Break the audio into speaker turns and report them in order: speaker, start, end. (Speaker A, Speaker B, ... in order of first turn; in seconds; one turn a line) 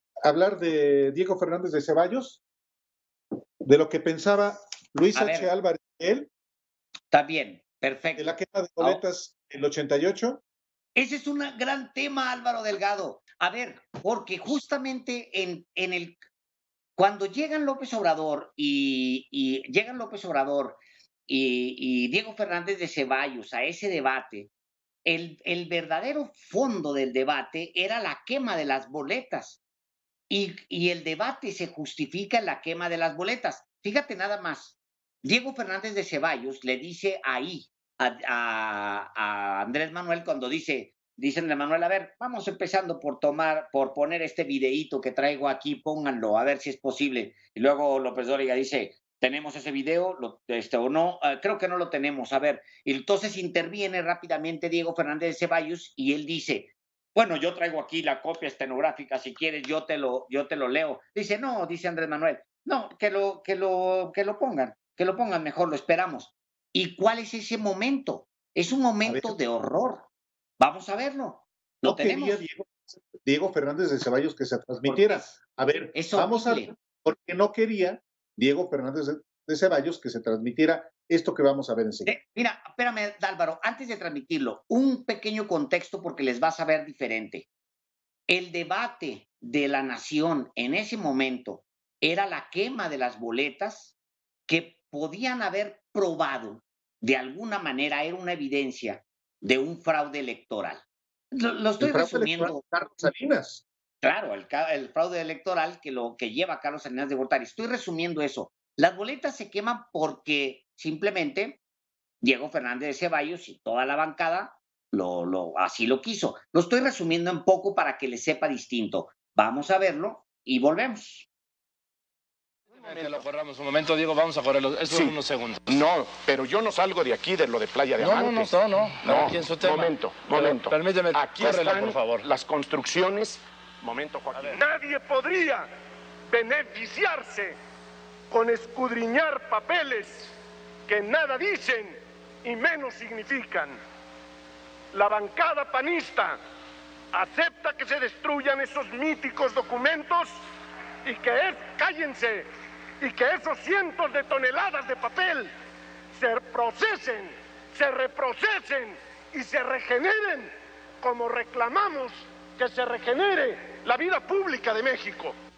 Speaker A: 0.2-2.4
Speaker A: 3.7-6.3
Speaker B: 5.1-5.5
Speaker B: 7.1-9.0
Speaker A: 8.2-10.4
Speaker B: 11.0-16.2
Speaker B: 17.0-24.5
Speaker B: 25.1-29.6
Speaker B: 30.3-70.1
Speaker A: 69.0-69.4
Speaker B: 70.6-72.4
Speaker A: 71.8-82.1
Speaker B: 74.8-75.3
Speaker B: 75.9-76.7
Speaker B: 82.0-87.5
Speaker B: 88.3-94.0
Speaker B: 94.5-100.8
Speaker B: 101.3-102.6
Speaker A: 101.8-103.6
Speaker B: 104.0-111.6
Speaker B: 112.2-121.3
Speaker C: 122.7-125.8
Speaker D: 124.9-134.6
Speaker C: 128.0-132.3
Speaker E: 134.5-135.7
Speaker E: 136.3-137.6
Speaker E: 138.3-140.3
Speaker E: 140.9-143.8
Speaker E: 144.9-146.4
Speaker E: 147.1-150.3
Speaker E: 151.1-152.5
Speaker E: 153.0-155.5
Speaker E: 156.2-160.5
Speaker E: 161.0-165.3